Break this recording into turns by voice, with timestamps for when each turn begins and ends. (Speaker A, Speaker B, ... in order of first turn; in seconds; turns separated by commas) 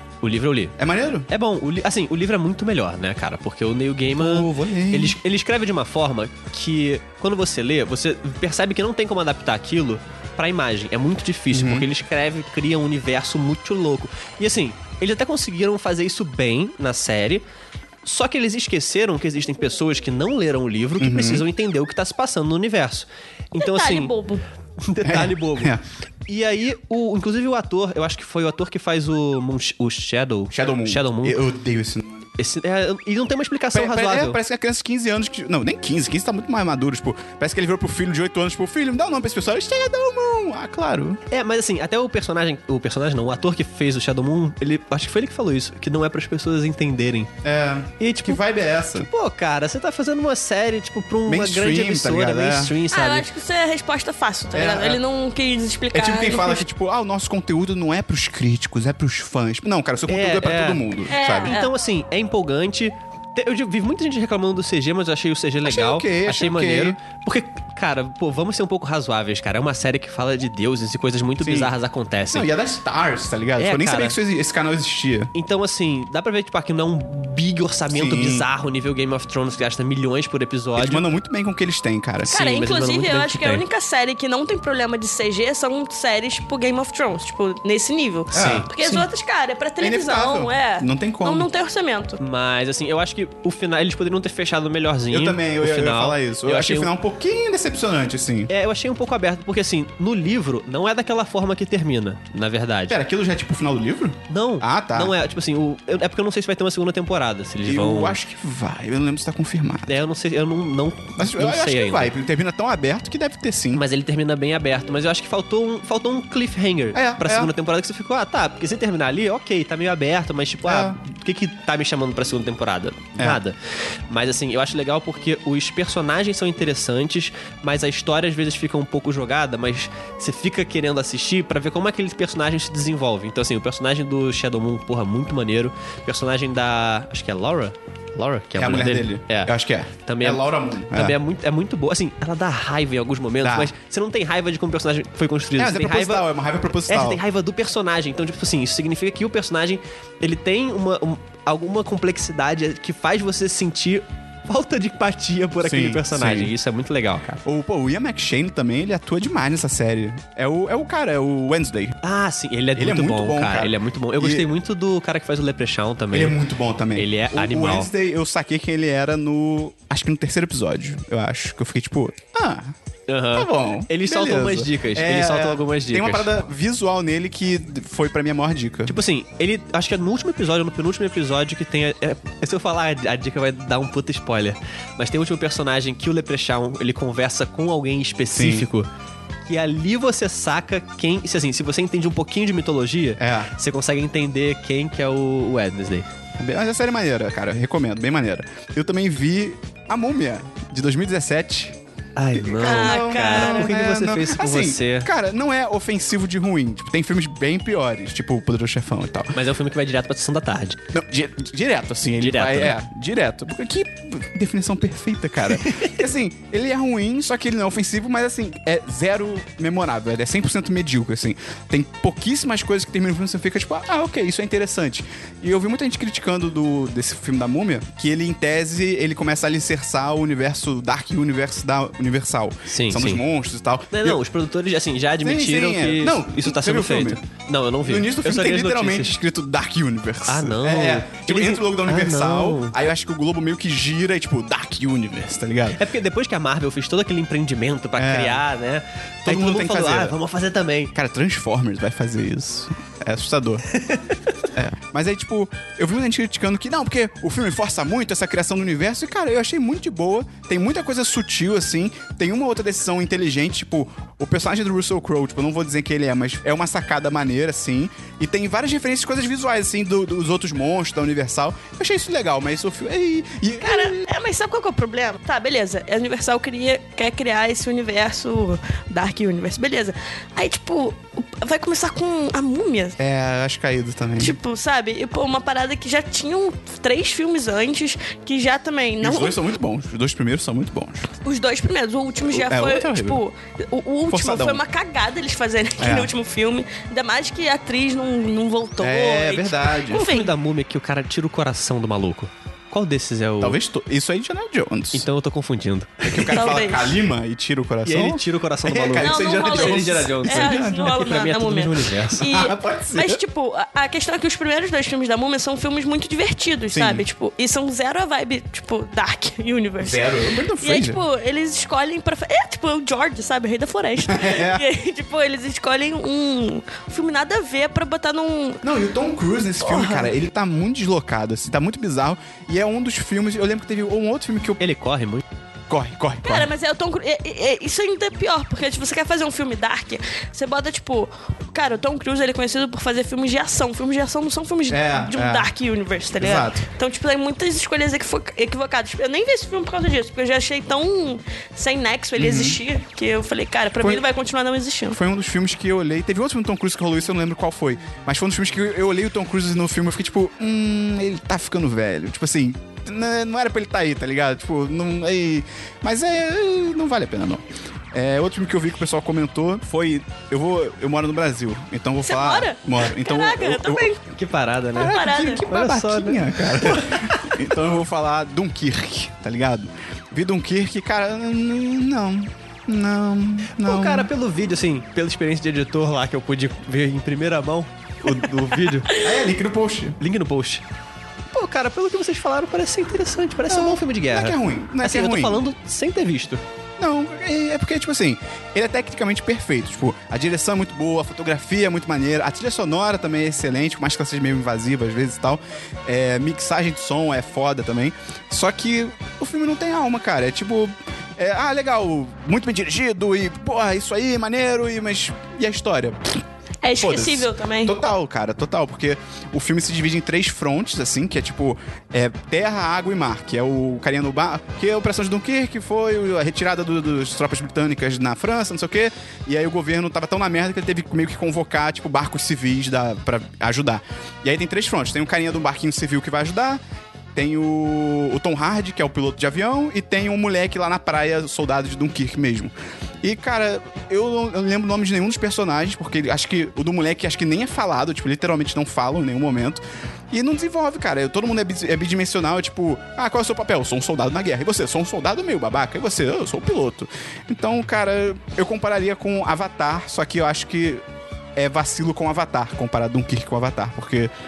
Speaker A: 0.2-0.8, Speaker B: 0.8-1.3, Speaker A: 1.3-17.4, Speaker B: 4.2-5.2, Speaker B: 11.5-11.9, Speaker A: 18.0-24.1, Speaker B: 21.0-21.4, Speaker C: 23.6-24.4, Speaker A: 24.8-25.7, Speaker B: 25.0-25.8, Speaker A: 26.3-31.4, Speaker B: 30.5-32.3, Speaker A: 32.4-34.4, Speaker B: 33.7-41.2, Speaker A: 41.3-47.3, Speaker B: 47.4-49.1, Speaker A: 48.0-48.4, Speaker A: 48.9-53.3, Speaker B: 51.3-52.8, Speaker C: 52.9-56.6, Speaker B: 54.5-55.0, Speaker B: 55.9-61.6, Speaker A: 60.1-72.5, Speaker C: 61.1-61.7, Speaker B: 65.6-67.0, Speaker B: 71.4-71.7, Speaker B: 72.3-75.3, Speaker A: 73.6-74.2, Speaker A: 75.3-81.0, Speaker B: 77.9-78.5, Speaker B: 80.8-82.6, Speaker C: 82.3-92.2, Speaker A: 82.3-83.6, Speaker A: 88.3-88.7, Speaker B: 88.3-89.0, Speaker B: 89.8-91.5, Speaker A: 92.2-96.9, Speaker B: 95.1-98.5, Speaker A: 98.5-103.0, Speaker B: 102.9-105.1, Speaker A: 104.3-108.2, Speaker B: 107.7-110.0, Speaker A: 109.9-112.1, Speaker B: 111.2-113.8, Speaker A: 113.7-123.5, Speaker B: 116.9-117.5, Speaker B: 120.7-121.0, Speaker A: 124.1-139.5, Speaker B: 138.6-141.2, Speaker A: 140.0-146.3, Speaker B: 143.4-143.7, Speaker B: 145.6-147.2, Speaker A: 146.9-157.4, Speaker B: 155.6-156.5, Speaker B: 157.4-162.0, Speaker A: 162.0-166.4, Speaker B: 162.8-164.5, Speaker B: 166.1-172.7, Speaker A: 167.0-167.9, Speaker A: 173.1-176.3, Speaker B: 173.3-179.0, Speaker A: 178.9-188.9, Speaker B: 188.3-188.7, Speaker A: 189.5-196.1, Speaker B: 193.2-193.5, Speaker B: 196.4-201.8, Speaker A: 202.2-205.1, Speaker B: 202.3-209.3, Speaker C: 202.6-203.7, Speaker A: 209.3-210.8, Speaker B: 210.9-234.2, Speaker A: 212.2-212.8, Speaker A: 215.6-216.0, Speaker A: 232.7-233.2, Speaker A: 233.9-239.1, Speaker B: 235.2-237.2, Speaker B: 237.8-245.8, Speaker A: 240.3-242.8, Speaker A: 245.8-250.9, Speaker B: 248.0-248.4, Speaker B: 249.3-250.2, Speaker B: 250.9-253.7, Speaker A: 253.7-254.3, Speaker B: 254.5-274.0, Speaker C: 273.6-283.0, Speaker B: 283.0-284.4, Speaker C: 284.2-289.4, Speaker B: 289.0-291.1, Speaker C: 291.2-300.3, Speaker B: 292.3-293.2, Speaker B: 294.1-294.6, Speaker B: 295.8-296.1, Speaker B: 298.8-300.1, Speaker A: 299.9-303.6, Speaker B: 303.4-305.1, Speaker A: 304.9-306.4, Speaker B: 306.0-311.1, Speaker C: 306.3-307.0, Speaker A: 307.9-312.2, Speaker C: 309.0-320.0, Speaker B: 312.2-313.2, Speaker B: 316.7-317.1, Speaker B: 319.8-321.0, Speaker C: 320.6-328.6, Speaker B: 324.1-324.6, Speaker B: 328.6-334.6, Speaker C: 329.6-330.1, Speaker A: 334.6-335.2, Speaker B: 335.7-336.5, Speaker C: 336.2-355.0, Speaker B: 344.7-345.5, Speaker B: 346.1-346.6, Speaker B: 352.2-352.6, Speaker B: 354.9-373.9, Speaker C: 372.0-374.0, Speaker A: 374.1-377.2, Speaker B: 374.8-384.1, Speaker C: 374.8-375.4, Speaker A: 383.5-388.9, Speaker B: 388.1-390.0, Speaker A: 390.0-390.6, Speaker A: 391.3-396.4, Speaker B: 393.5-395.4, Speaker B: 396.8-416.0, Speaker C: 416.6-417.7, Speaker B: 416.8-436.6, Speaker B: 437.1-460.8, Speaker B: 461.4-464.1